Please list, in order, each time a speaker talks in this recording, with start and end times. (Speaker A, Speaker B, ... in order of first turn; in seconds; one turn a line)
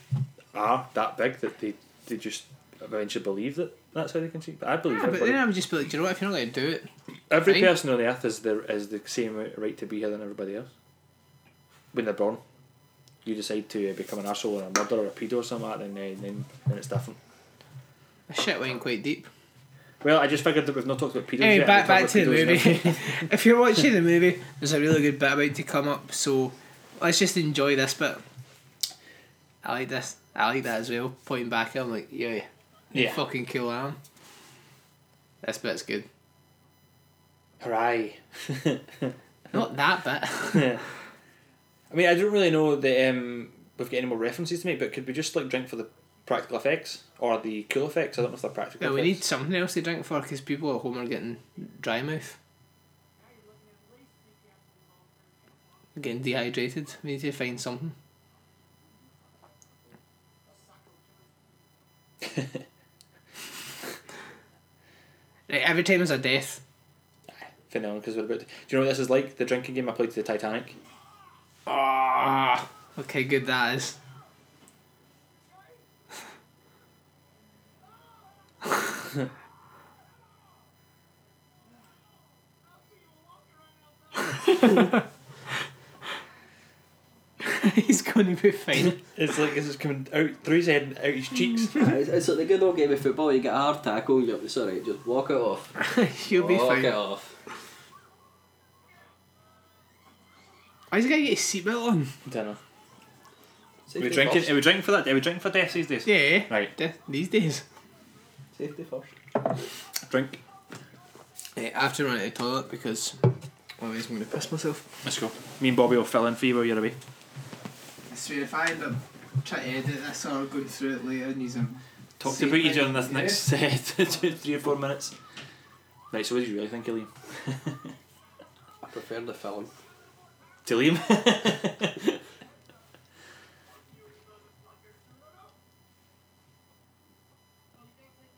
Speaker A: 0.5-5.4
Speaker B: 4.9-6.9
Speaker A: 7.3-10.7
Speaker B: 7.4-7.7
Speaker A: 11.9-12.4
Speaker A: 13.2-17.2
Speaker B: 18.3-19.3
Speaker A: 20.0-23.2
Speaker B: 21.4-28.2
Speaker B: 29.6-34.0
Speaker A: 32.9-33.2
Speaker B: 35.4-36.1
Speaker A: 37.6-39.1
Speaker B: 39.5-40.8
Speaker A: 40.5-40.8
Speaker A: 41.9-49.2
Speaker B: 48.8-52.4
Speaker B: 55.9-57.9
Speaker A: 62.2-62.6
Speaker B: 65.5-66.6
Speaker A: 67.3-70.8
Speaker B: 71.7-74.0
Speaker B: 84.3-85.0
Speaker B: 87.4-89.0
Speaker A: 88.9-91.9
Speaker C: 91.8-95.8
Speaker B: 95.8-96.9
Speaker C: 96.3-97.4
Speaker B: 100.9-102.1
Speaker A: 102.2-102.6
Speaker C: 103.9-104.5
Speaker A: 104.0-106.7
Speaker B: 106.0-107.6
Speaker C: 108.5-109.1
Speaker A: 110.0-110.4
Speaker B: 111.5-114.8
Speaker A: 115.0-117.0
Speaker B: 118.1-123.4
Speaker A: 122.2-125.1
Speaker A: 126.1-127.9
Speaker C: 128.8-129.7
Speaker A: 130.6-132.2